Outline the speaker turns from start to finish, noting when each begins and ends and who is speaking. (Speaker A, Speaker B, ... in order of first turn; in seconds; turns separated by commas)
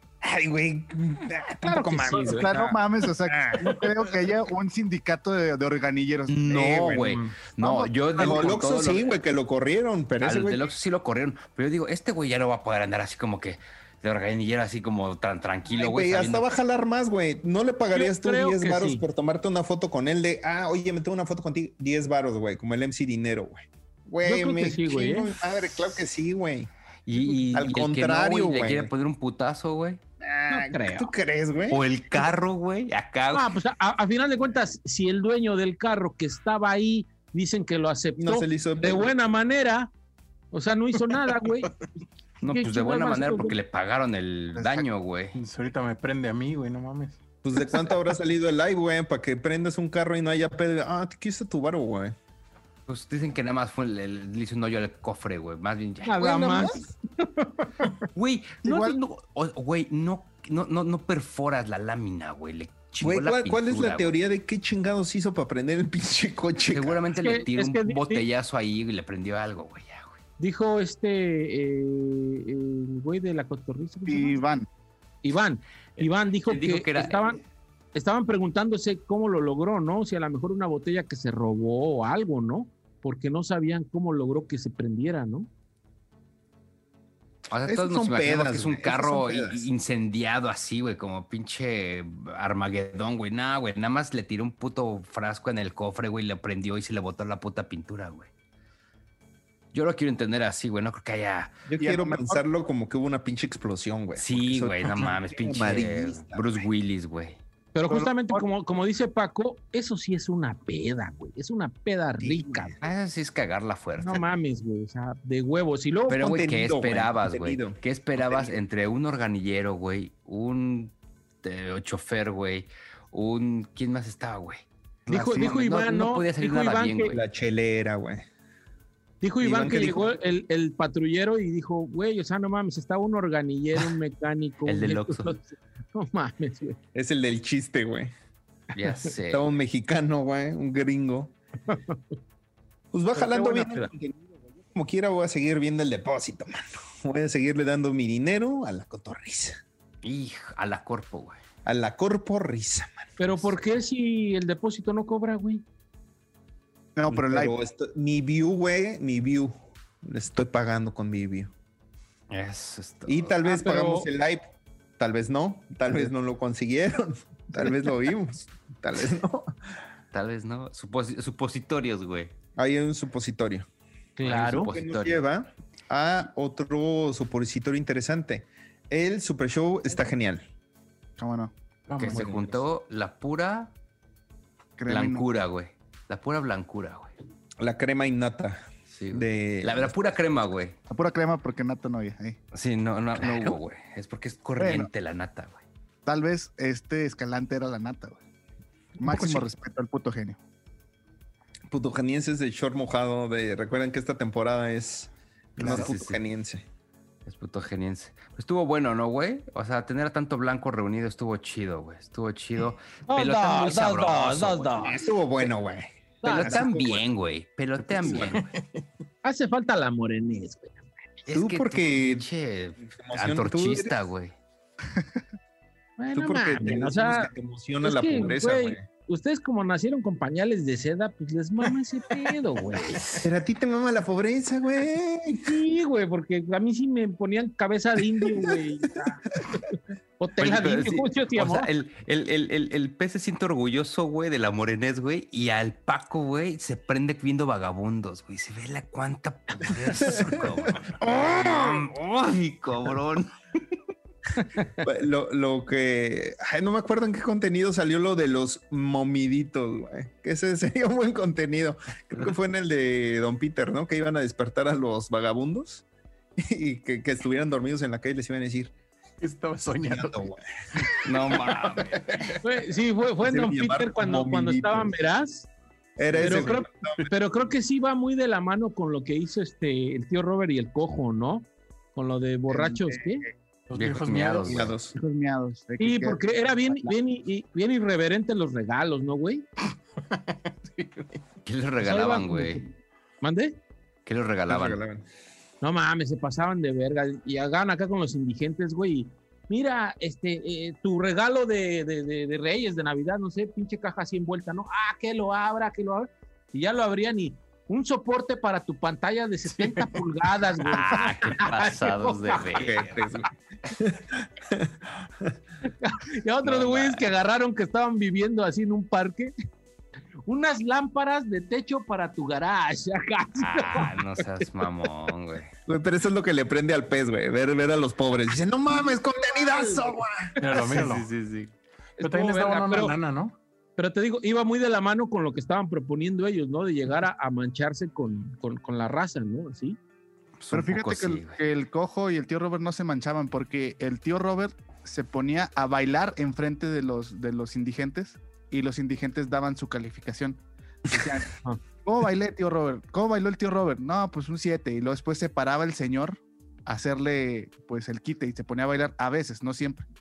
Speaker A: 0.2-3.8, Speaker B: 1.6-2.6, Speaker C: 2.1-8.6, Speaker D: 6.3-9.2, Speaker A: 6.5-7.2, Speaker A: 8.2-10.7, Speaker D: 10.2-16.4, Speaker A: 15.7-26.7, Speaker B: 17.9-19.0, Speaker B: 24.2-25.3, Speaker D: 27.1-30.0, Speaker A: 27.5-28.9, Speaker A: 30.2-31.8, Speaker B: 30.5-31.1, Speaker D: 31.7-33.5, Speaker B: 33.3-39.9, Speaker A: 38.2-39.1, Speaker B: 40.5-41.7, Speaker D: 42.4-45.4, Speaker B: 42.4-43.6, Speaker C: 44.5-44.8, Speaker E: 45.3-47.2, Speaker A: 47.4-52.1, Speaker D: 52.9-56.9, Speaker B: 56.0-57.9, Speaker A: 56.2-56.8, Speaker D: 58.1-64.1, Speaker C: 58.6-59.0, Speaker A: 63.0-67.0, Speaker D: 66.7-70.2, Speaker B: 67.2-68.2, Speaker B: 70.4-74.4, Speaker C: 74.0-74.7, Speaker B: 75.2-77.4, Speaker D: 76.0-77.3, Speaker B: 77.9-85.5, Speaker D: 87.5-98.3, Speaker A: 87.6-89.7, Speaker D: 99.7-101.6, Speaker A: 101.7-106.7, Speaker C: 101.8-102.4, Speaker D: 104.2-107.4, Speaker B: 107.7-112.7, Speaker C: 107.9-108.4, Speaker A: 112.2-112.8, Speaker D: 112.8-114.3, Speaker B: 114.0-116.3, Speaker D: 116.1-124.7, Speaker A: 116.1-118.6, Speaker C: 125.1-125.5, Speaker B: 125.1-127.2, Speaker D: 125.2-127.2, Speaker A: 127.1-128.2, Speaker B: 129.2-136.8, Speaker A: 129.4-130.1, Speaker D: 134.6-135.3, Speaker A: 136.9-138.1, Speaker D: 138.7-139.4, Speaker A: 139.3-141.3, Speaker B: 141.7-142.0, Speaker A: 142.9-149.6, Speaker B: 143.1-143.9, Speaker D: 150.0-151.4, Speaker A: 151.6-153.1, Speaker B: 153.2-155.6, Speaker D: 153.3-153.6, Speaker C: 156.9-157.6, Speaker A: 157.1-161.5, Speaker D: 162.3-163.3, Speaker A: 163.1-169.5, Speaker B: 163.4-164.1, Speaker D: 170.1-172.3, Speaker A: 172.6-173.7, Speaker B: 174.2-174.7, Speaker D: 174.2-175.2, Speaker A: 174.5-180.4, Speaker C: 181.2-181.5, Speaker E: 181.9-182.4, Speaker D: 181.9-183.7, Speaker C: 184.8-185.2, Speaker D: 184.9-187.1, Speaker A: 187.6-189.9, Speaker D: 188.9-190.8, Speaker C: 190.9-192.4, Speaker D: 192.5-195.6, Speaker C: 193.2-193.6, Speaker C: 194.6-194.9, Speaker C: 196.1-198.2, Speaker C: 199.0-200.4, Speaker A: 199.0-199.4, Speaker A: 201.7-206.6, Speaker C: 205.6-205.9, Speaker D: 205.6-206.2, Speaker D: 207.2-214.9, Speaker B: 213.1-215.0, Speaker A: 214.8-217.1, Speaker B: 216.2-216.6, Speaker D: 216.2-218.5, Speaker A: 218.0-218.3, Speaker E: 218.1-218.8, Speaker B: 219.2-220.9, Speaker D: 221.2-224.3, Speaker A: 221.3-222.3, Speaker A: 222.8-223.9, Speaker B: 226.0-227.3, Speaker A: 226.1-228.8, Speaker B: 227.8-233.1, Speaker A: 233.2-235.5, Speaker B: 235.4-239.6, Speaker B: 240.2-241.7, Speaker D: 240.4-253.3, Speaker A: 250.0-251.9, Speaker A: 254.8-265.8, Speaker A: 266.4-268.7, Speaker E: 269.2-270.3, Speaker A: 269.8-270.9, Speaker E: 270.9-272.4, Speaker D: 271.0-272.0, Speaker B: 272.4-275.5, Speaker A: 273.2-274.9, Speaker A: 276.0-277.1, Speaker B: 276.1-283.2, Speaker C: 282.5-283.3, Speaker E: 283.7-284.6, Speaker D: 283.7-284.7, Speaker A: 284.4-284.9, Speaker C: 284.9-286.9, Speaker B: 285.8-289.4, Speaker E: 290.1-291.2, Speaker D: 291.4-292.6, Speaker B: 291.8-292.7, Speaker B: 293.2-293.6, Speaker D: 294.1-294.8, Speaker A: 294.5-295.0, Speaker B: 295.6-312.8, Speaker D: 310.6-312.8, Speaker A: 312.5-315.3, Speaker B: 315.6-319.3, Speaker D: 316.4-317.1, Speaker B: 320.3-324.2, Speaker D: 323.4-325.5, Speaker A: 325.6-330.4, Speaker E: 330.4-331.1, Speaker D: 330.5-331.5, Speaker B: 332.0-332.9, Speaker E: 332.0-333.4, Speaker B: 333.8-339.8, Speaker D: 340.4-341.4, Speaker C: 340.5-359.8